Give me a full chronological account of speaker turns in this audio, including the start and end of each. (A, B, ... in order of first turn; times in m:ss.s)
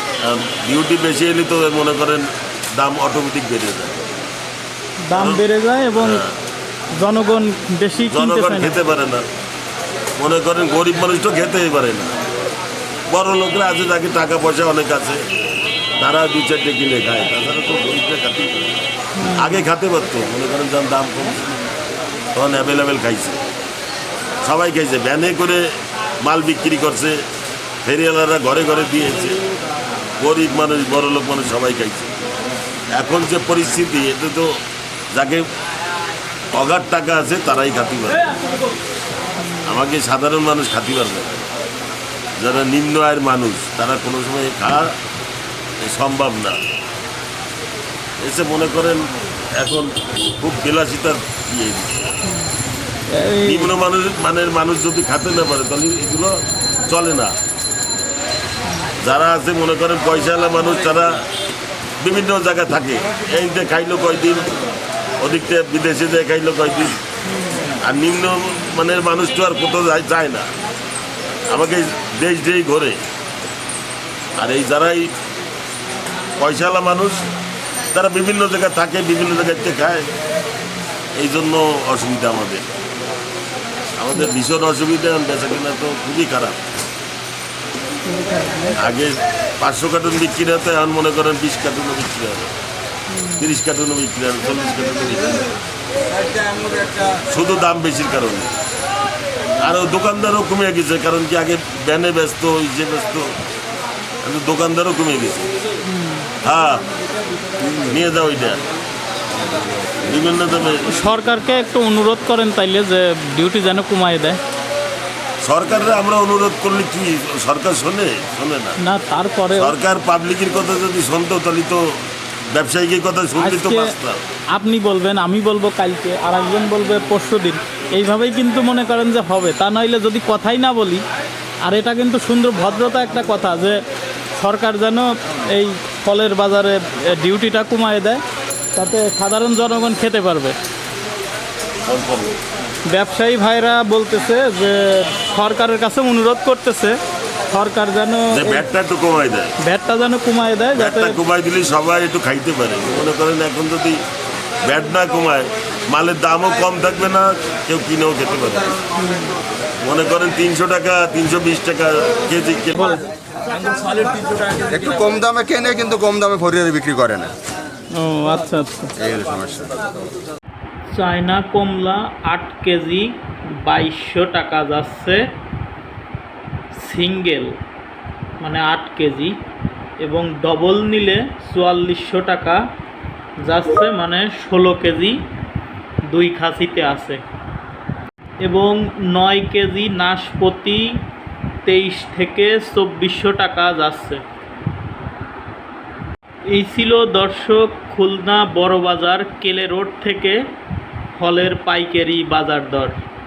0:00.2-0:04.1 A
0:05.0-0:06.2 B
0:05.1-0:05.4 A
0:06.0-0:06.3 A
0:07.0-0:08.7 B
0:08.1-0:09.2 A
0:10.2-0:12.1 A
0:13.1-0:15.2 A
0:16.0-0:18.8 A
0:19.2-0:19.6 B
0:19.3-0:21.5 A
0:22.3-0:23.4 A
0:24.4-0:27.2 A
0:27.8-0:29.4 A
0:30.2-0:32.1 A
0:32.9-0:34.6 A
0:35.1-0:35.5 A
0:36.5-0:38.4 A
0:39.4-0:39.8 B
0:39.6-0:41.5 A
0:42.4-0:45.0 A
0:45.8-0:46.6 A
0:48.2-0:52.2 A
0:52.2-0:52.5 B
0:53.1-0:53.7 B
0:53.4-0:57.3 A
0:59.0-1:01.2 A
1:02.0-1:04.6 A
1:05.2-1:07.0 A
1:07.3-1:07.8 B
1:07.8-1:10.5 A
1:11.5-1:13.0 A
1:14.4-1:15.1 A
1:16.4-1:17.2 A
1:17.9-1:20.1 A
1:21.2-1:22.7 A
1:24.0-1:26.6 A
1:28.1-1:28.8 B
1:28.8-1:32.5 A
1:33.1-1:33.5 B
1:33.4-1:35.5 A
1:36.7-1:38.5 A
1:39.6-1:43.4 A
1:44.2-1:45.5 A
1:45.9-1:46.3 B
1:46.4-1:46.8 A
1:47.6-1:48.6 A
1:50.0-1:50.9 A
1:50.8-1:54.4 B
1:55.4-1:58.8 A
1:58.8-1:59.8 B
1:59.5-2:04.2 A
2:03.4-2:03.9 B
2:04.5-2:11.0 B
2:11.6-2:13.8 B
2:14.4-2:18.2 B
2:18.7-2:20.6 B
2:21.8-2:22.4 A
2:22.9-2:27.0 B
2:27.5-2:28.7 B
2:28.3-2:29.6 A
2:29.6-2:31.2 B
2:30.7-2:34.0 A
2:34.6-2:38.8 A
2:39.0-2:39.3 B
2:39.8-2:43.0 A
2:44.5-2:47.3 C
2:47.9-2:49.0 B
2:49.0-2:49.9 C
2:50.9-2:55.2 B
2:56.7-2:57.5 B
2:58.4-2:59.4 B
3:00.0-3:02.6 B
3:03.4-3:05.2 B
3:06.1-3:07.2 B
3:08.4-3:10.8 B
3:11.6-3:14.2 B
3:16.5-3:20.4 B
3:21.2-3:23.0 B